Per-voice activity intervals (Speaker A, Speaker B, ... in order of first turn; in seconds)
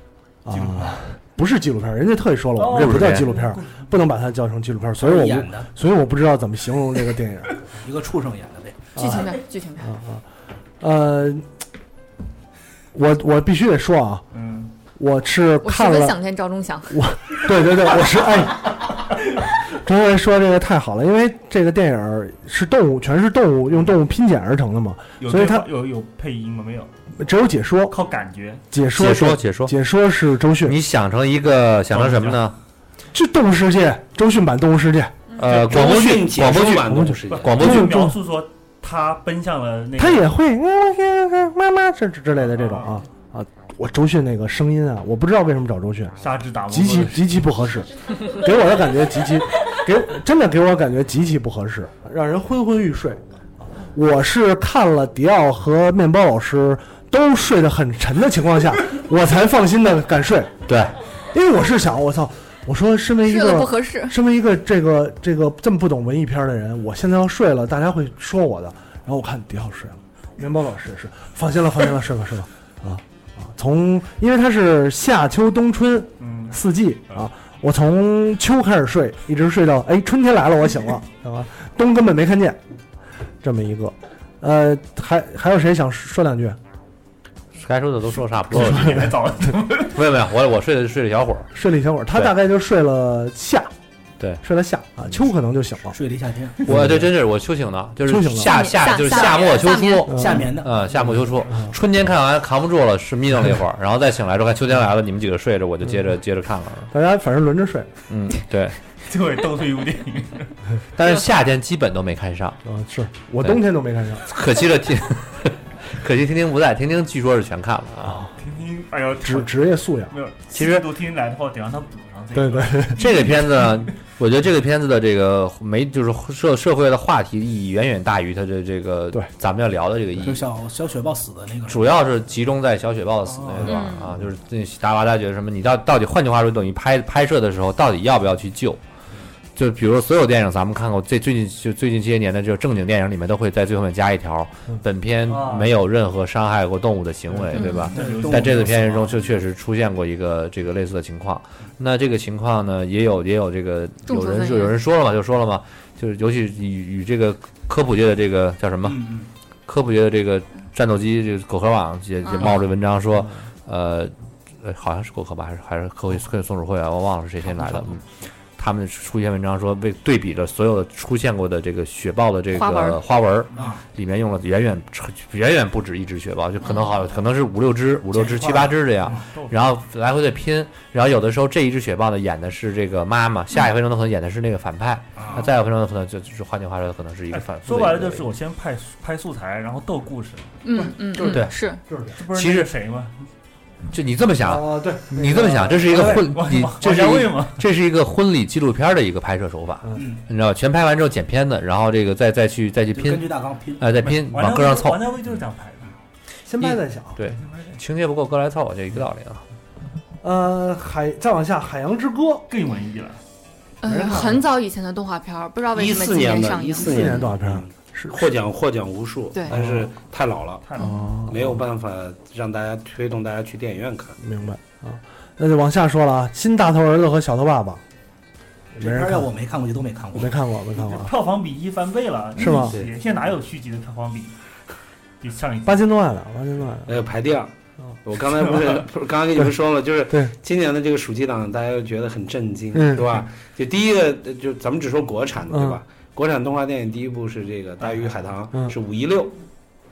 Speaker A: 0.4-7.6, 8.9-10.2, 10.8-11.5, 12.9-14.2, 14.9-16.2, 16.9-25.7, 27.2-27.9, 28.7-30.8, 33.1-35.2, 36.5-38.2, 40.0-46.1, 46.7-53.2, 53.9-60.6, 61.3-82.6, 83.4-86.6, 88.7-89.1, 91.5-93.7, 94.4-96.0, 96.7-97.1, 98.0-98.5, 100.1-100.5, 101.5-101.7, 106.9-107.9, 112.6-114.2, 118.0-118.3, 119.2-120.1, 122.3-123.1, 194.4-195.9, 206.5-207.2, 210.2-212.4, 213.8-214.4, 216.8-218.2, 219.5-219.9, 220.8-221.6, 224.2-227.8, 228.8-229.3, 230.1-231.1, 232.4-232.8, 235.7-237.0, 240.1-240.3, 242.7-243.2, 245.5-245.8
Speaker B: 0.5-1.0, 2.6-3.9, 14.3-14.7, 25.2-26.9, 27.9-28.6, 31.9-32.4, 37.3-40.3, 42.5-43.0, 46.2-47.5, 76.2-77.3, 88.5-90.0, 109.0-110.6, 118.4-124.0, 133.3-133.7, 145.2-145.8, 147.3-148.9, 179.1-179.6, 187.3-190.5, 192.1-193.1, 195.9-197.6, 204.0-205.9, 207.4-207.7, 212.5-213.2, 220.6-221.0, 230.8-234.4, 235.2-235.9
Speaker C: 2.7-3.3, 28.9-29.7, 30.6-32.6, 35.4-38.0, 60.7-60.9, 87.5-89.2, 89.9-91.5, 96.6-106.9, 108.1-108.8, 110.9-112.6, 114.2-118.2, 120.5-120.8, 122.9-130.4, 131.7-138.8, 139.6-159.1, 159.7-168.0, 168.6-188.3, 191.2-191.6, 192.3-192.7, 193.9-205.0, 206.6-209.4
Speaker D: 5.0-5.7, 7.8-8.8, 95.9-97.0, 100.1-100.9, 130.2-132.1, 133.6-133.9, 147.9-149.4, 158.8-159.3, 167.5-167.9, 173.5-173.8, 178.1-179.2, 185.2-185.5, 199.9-200.2, 202.9-204.0, 228.7-230.4
Speaker E: 8.9-9.9, 15.6-17.1, 63.2-64.2, 98.4-100.1, 133.7-134.1, 147.6-147.9, 154.1-154.8, 172.5-173.0, 190.6-191.8, 213.8-216.9
Speaker F: 35.5-37.6, 215.7-220.6, 221.2-224.2, 232.5-232.9, 236.9-237.5, 238.0-249.4